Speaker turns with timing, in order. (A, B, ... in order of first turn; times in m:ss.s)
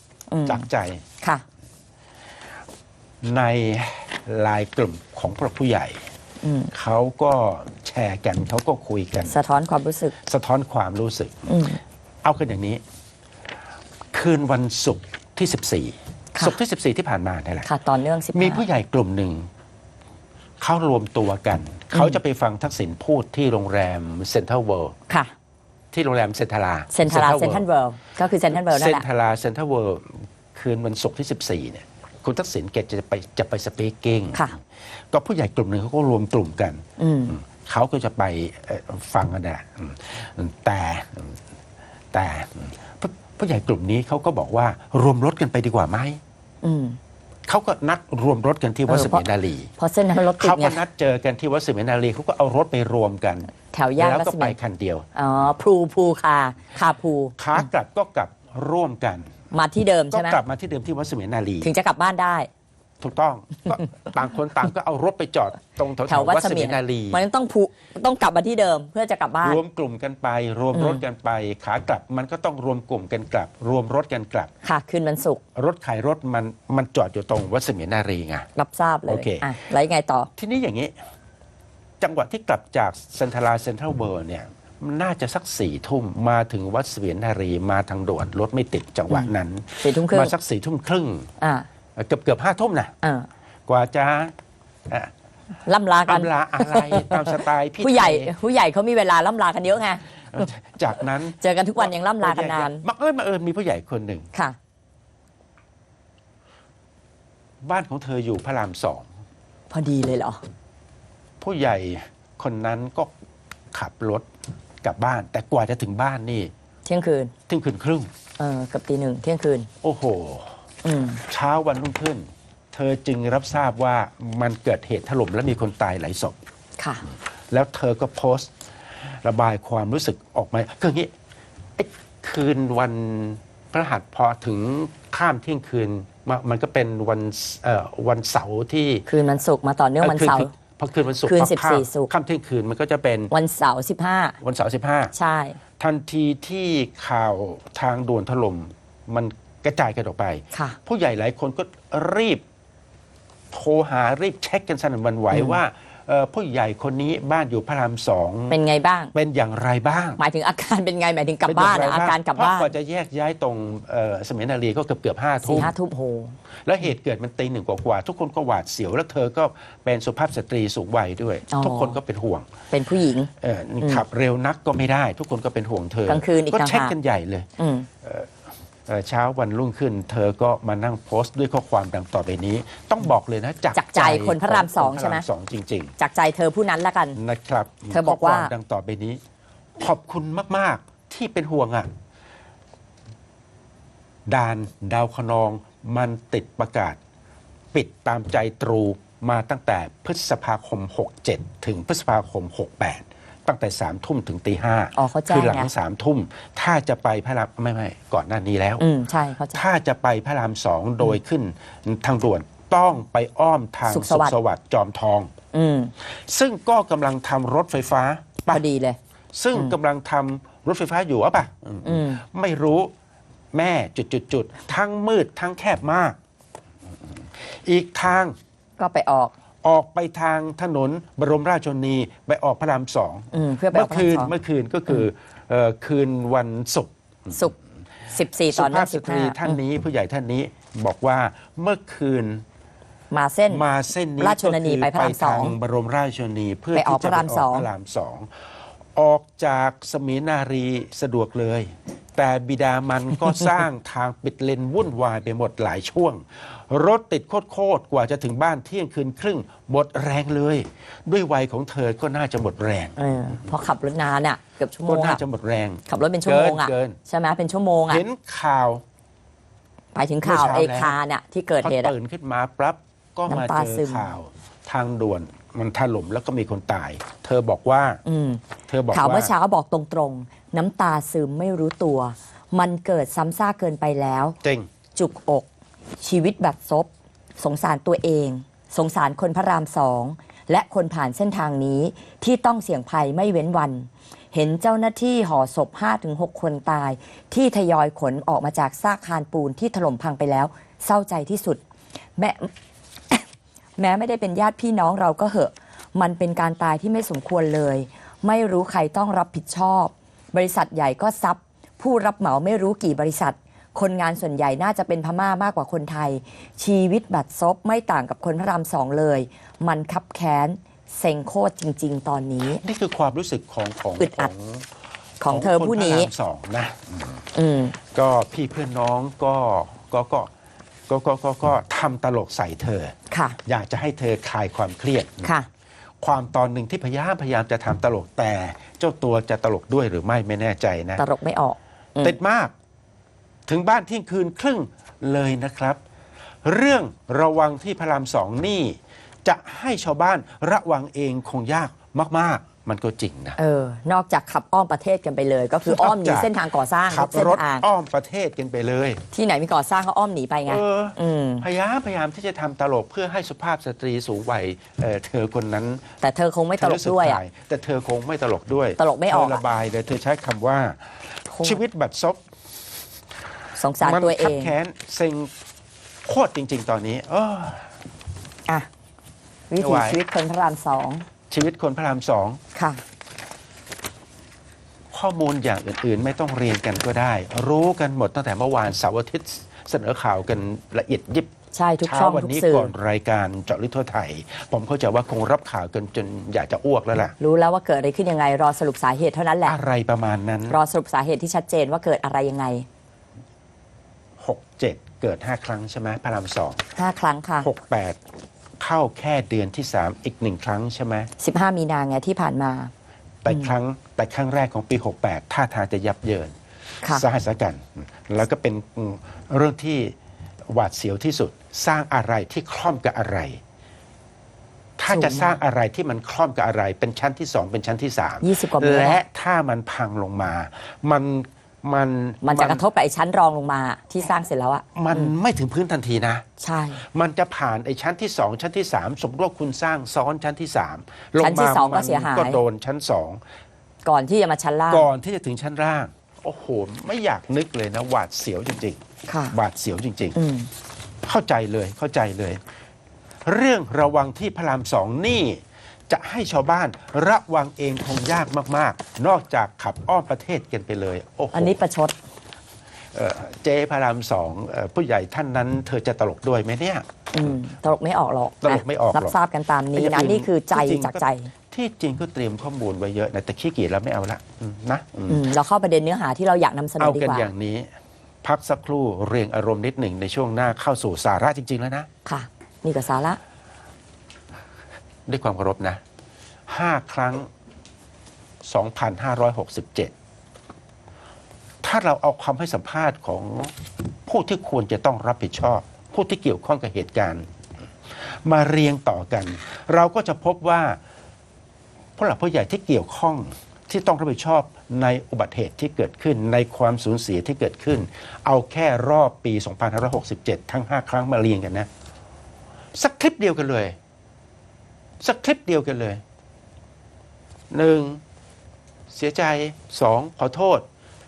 0:00.3-0:00.6 A
0:00.4-0:01.0 B
0:03.2-0:06.0 B
0:06.4-0:06.7 A
0:06.7-0:09.4 B
0:09.2-0:10.1 A
0:10.2-0:11.5 B
0:11.5-0:11.8 A
0:12.2-0:12.8 B
0:14.1-0:17.7 B
0:17.6-0:18.6 A
0:18.3-0:19.5 B
0:20.6-0:25.0 B
0:21.9-0:22.2 A
0:25.9-0:27.6 B
0:26.9-0:29.0 A
0:28.5-0:34.5 B
0:35.1-0:41.4 B
0:37.0-0:37.4 A
0:42.1-0:46.2 B
0:46.6-0:47.0 A
0:47.5-0:49.7 B
0:48.9-0:49.2 A
0:49.8-0:50.8 A
0:50.3-0:55.1 B
0:53.7-0:54.6 A
0:55.1-0:57.7 A
0:57.4-0:59.3 B
0:59.5-1:00.4 A
1:00.1-1:01.7 B
1:01.6-1:02.5 A
1:03.0-1:07.2 B
1:06.0-1:09.6 A
1:09.4-1:14.5 B
1:10.7-1:11.0 A
1:14.6-1:15.4 A
1:15.5-1:18.5 B
1:18.6-1:20.3 A
1:19.1-1:19.5 B
1:20.4-1:20.9 B
1:22.0-1:31.3 B
1:29.8-1:30.3 A
1:31.4-1:31.7 A
1:32.0-1:32.9 B
1:33.0-1:33.3 A
1:33.7-1:34.3 B
1:35.6-1:40.0 A
1:36.0-1:38.3 B
1:40.3-1:44.3 B
1:41.4-1:42.8 A
1:47.6-1:49.1 B
1:49.7-1:50.4 A
1:51.4-1:53.1 B
1:53.7-1:54.2 B
1:54.8-1:56.5 B
1:56.8-1:57.3 A
1:57.5-1:58.1 B
1:58.4-1:59.7 A
1:59.8-2:00.6 B
2:00.8-2:01.2 A
2:01.2-2:06.4 B
2:06.8-2:07.0 A
2:07.5-2:08.5 B
2:09.2-2:11.1 B
2:11.8-2:19.0 B
2:19.1-2:20.5 A
2:20.0-2:23.3 B
2:21.2-2:22.1 A
2:23.3-2:24.4 A
2:24.4-2:25.1 B
2:25.1-2:25.6 A
2:25.8-2:32.4 B
2:30.5-2:30.8 A
2:33.5-2:38.6 B
2:35.3-2:35.6 A
2:38.5-2:39.1 A
2:39.1-2:40.2 B
2:40.2-2:42.7 A
2:41.4-2:45.7 B
2:45.4-2:46.3 A
2:46.6-2:52.5 B
2:51.5-2:52.0 A
2:52.7-2:54.0 A
2:53.4-2:57.5 B
2:56.1-2:56.9 A
2:57.6-2:57.9 A
2:58.0-2:58.3 B
2:58.9-3:05.9 B
3:03.7-3:05.2 A
3:06.0-3:07.2 A
3:07.2-3:09.2 B
3:07.9-3:08.5 A
3:09.8-3:11.9 B
3:14.3-3:17.0 B
3:17.7-3:28.8 B
3:25.0-3:25.7 A
3:28.8-3:29.6 A
3:29.5-3:35.3 B
3:33.9-3:34.3 A
3:35.5-3:35.9 A
3:36.3-3:38.6 B
3:38.5-3:39.0 A
3:39.3-3:42.9 B
3:41.8-3:42.2 A
3:43.5-3:46.2 B
3:47.6-3:48.3 B
3:48.8-3:49.3 A
3:49.6-3:57.3 B
3:53.3-3:54.3 A
3:58.1-3:59.6 A
3:58.5-4:02.4 B
4:03.1-4:03.6 A
4:03.5-4:08.3 B
4:04.2-4:05.6 A
4:06.7-4:07.7 A
4:09.0-4:23.0 B
4:23.0-4:25.2 A
4:24.8-4:27.0 B
4:25.9-4:28.0 A
4:27.9-4:28.8 B
4:29.9-4:31.9 A
4:30.2-4:31.0 B
4:31.6-4:38.0 B
4:33.3-4:34.1 A
4:38.0-4:44.4 A
4:38.7-4:39.3 B
4:44.4-4:44.7 B
4:45.0-4:45.5 A
4:46.0-5:01.6 A
5:02.2-5:02.5 A
5:03.1-5:22.6 A
5:22.5-5:24.6 B
5:24.0-5:24.3 A
5:25.2-5:26.1 A
5:25.3-5:27.2 B
5:27.3-5:27.8 A
5:27.9-5:30.3 B
5:30.9-5:35.3 B
5:33.1-5:33.4 A
5:36.0-5:41.0 B
5:41.0-5:42.1 A
5:42.0-5:42.5 B
5:43.5-5:45.8 B
5:46.4-5:53.4 B
5:53.4-5:57.6 A
5:55.6-5:56.3 B
5:56.9-5:59.0 B
5:59.1-6:01.4 A
6:00.5-6:05.9 B
6:06.0-6:07.2 A
6:06.6-6:12.2 B
6:08.8-6:09.4 A
6:11.3-6:11.6 A
6:13.6-6:14.5 A
6:13.8-6:15.3 B
6:16.0-6:17.7 B
6:19.5-6:21.0 A
6:19.6-6:20.0 B
6:21.3-6:22.4 B
6:22.5-6:22.8 A
6:24.9-6:31.3 B
6:31.5-6:32.7 A
6:31.8-6:37.2 B
6:37.2-6:39.6 A
6:39.4-6:40.6 B
6:40.5-6:42.6 A
6:44.2-6:46.6 B
6:46.8-6:47.5 A
6:47.4-6:48.0 B
6:48.6-6:51.1 B
6:51.2-6:52.7 A
6:53.2-6:56.3 B
6:56.9-6:59.9 B
7:00.5-7:03.4 B
7:04.8-7:12.6 B
7:04.9-7:05.4 A
7:08.2-7:09.0 A
7:12.2-7:15.1 A
7:14.7-7:16.2 B
7:16.4-7:16.8 A
7:16.8-7:23.2 B
7:21.2-7:22.4 A
7:23.8-7:24.9 A
7:24.7-7:30.2 B
7:29.1-7:29.4 A
7:30.2-7:30.5 A
7:31.0-7:32.4 B
7:33.2-7:41.6 B
7:41.3-7:41.9 A
7:42.9-7:46.9 B
7:47.1-7:51.3 A
7:48.4-7:49.2 B
7:49.7-7:55.2 B
7:55.1-7:57.3 A
7:56.8-7:57.7 B
7:58.2-8:01.9 B
8:02.0-8:03.2 A
8:05.1-8:05.8 B
8:06.5-8:07.3 B
8:08.4-8:09.9 B
8:11.6-8:13.5 B
8:14.0-8:17.3 B
8:18.0-8:20.8 B
8:22.0-8:31.7 B
8:32.7-8:33.8 B
8:35.0-8:36.0 B
8:37.5-8:38.0 B
8:38.9-8:40.6 B